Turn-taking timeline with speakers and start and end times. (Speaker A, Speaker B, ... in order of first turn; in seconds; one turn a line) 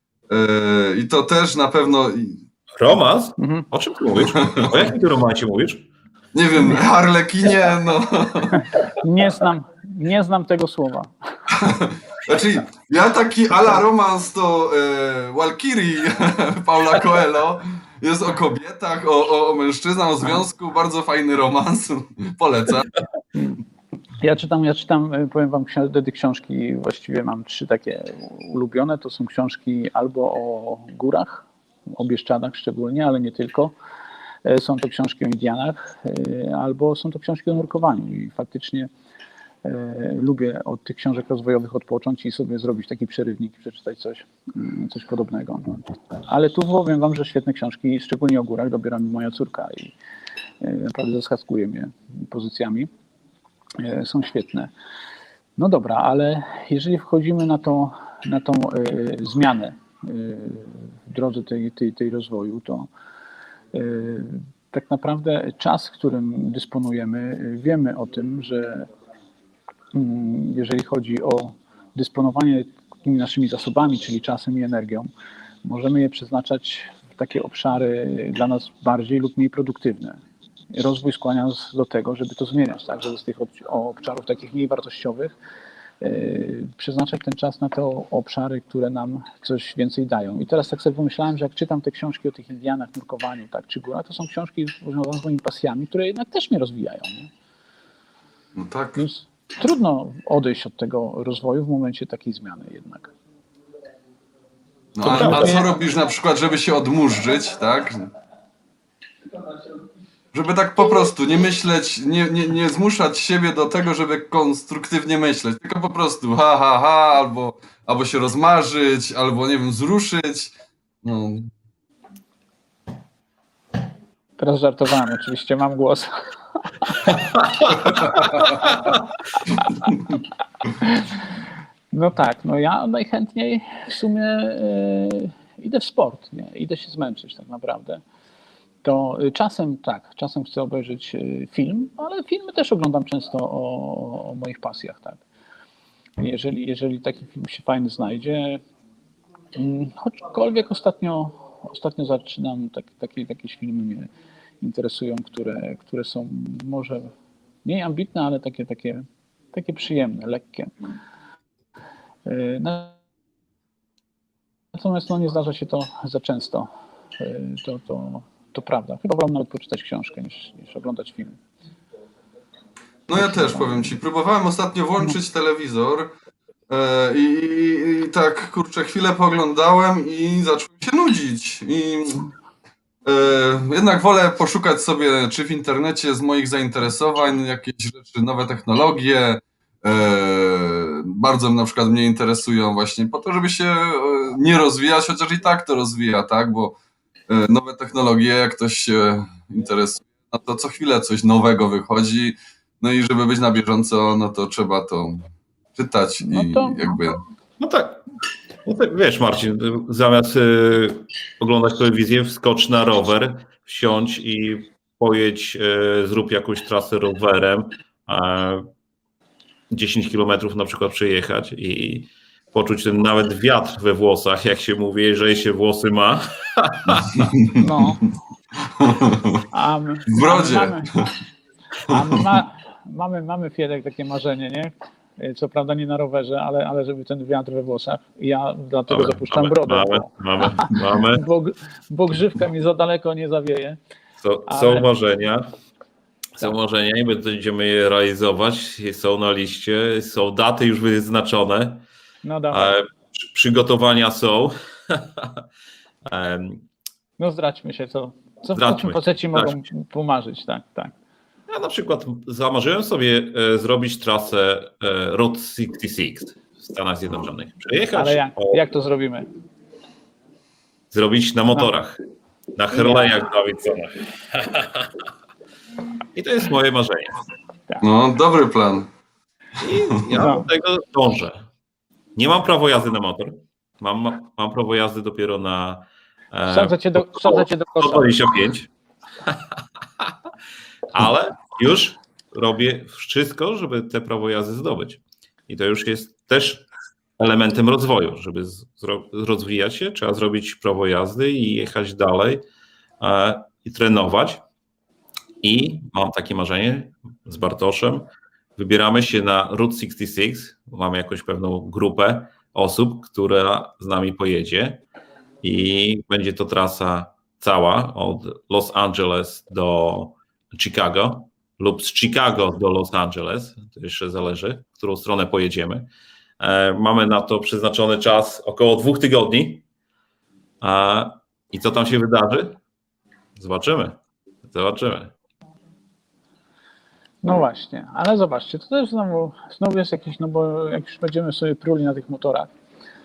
Speaker A: 0.3-2.4
Speaker B: 2.8-5.9
Speaker C: 3.4-3.7
Speaker A: 4.3-4.8
Speaker A: 6.3-8.6
Speaker C: 8.5-11.1
Speaker A: 11.5-23.0
Speaker C: 23.3-23.6
Speaker C: 24.2-33.7
Speaker C: 34.4-38.9
Speaker C: 39.6-49.9
Speaker C: 50.6-52.9
Speaker C: 53.8-54.7
Speaker C: 55.6-62.9
Speaker C: 63.7-68.9
Speaker C: 69.9-75.1
Speaker C: 75.6-80.2
Speaker C: 80.7-85.3
Speaker C: 86.0-97.3
Speaker A: 98.5-99.0
Speaker C: 99.0-103.1
Speaker A: 104.9-108.1
Speaker C: 105.0-105.7
Speaker B: 105.1-105.5
Speaker A: 110.3-121.5
Speaker C: 124.4-126.1
Speaker C: 126.8-127.2
Speaker A: 127.9-128.6
Speaker B: 128.7-129.0
Speaker C: 130.8-131.2
Speaker C: 131.9-138.0
Speaker C: 138.8-145.2
Speaker C: 146.2-148.6
Speaker C: 149.5-154.1
Speaker C: 154.6-157.1
Speaker C: 157.6-160.7
Speaker C: 162.2-162.9
Speaker C: 164.7-171.4
Speaker A: 173.1-176.1
Speaker C: 173.2-173.8
Speaker A: 176.7-182.3
Speaker A: 183.1-196.8
Speaker A: 197.3-207.2
Speaker C: 206.2-206.9
Speaker B: 207.6-208.0
Speaker B: 208.6-218.7
Speaker B: 219.7-227.3
Speaker C: 227.5-228.0
Speaker A: 228.8-229.4
Speaker C: 229.5-230.9
Speaker A: 230.1-231.1
Speaker C: 231.9-243.8
Speaker B: 238.9-241.2
Speaker B: 244.2-245.5
Speaker C: 244.5-244.9
Speaker B: 246.4-251.8
Speaker C: 252.2-252.7
Speaker B: 252.5-255.4
Speaker B: 256.0-256.7
Speaker C: 257.2-260.9
Speaker B: 258.5-259.6
Speaker B: 261.5-268.7
Speaker C: 267.9-269.3
Speaker B: 270.9-272.0
Speaker B: 272.6-275.0
Speaker C: 272.7-273.2
Speaker B: 276.1-277.2
Speaker A: 277.8-278.9
Speaker B: 279.6-281.5
Speaker C: 280.1-280.4
Speaker B: 282.1-288.7
Speaker C: 286.5-288.2
Speaker B: 289.2-290.1
Speaker B: 290.9-296.6
Speaker B: 297.2-302.4
Speaker B: 303.0-304.4
Speaker B: 305.4-314.8
Speaker B: 315.4-325.9
Speaker B: 326.4-329.6
Speaker B: 330.6-332.6
Speaker B: 333.4-335.1
Speaker C: 337.2-342.5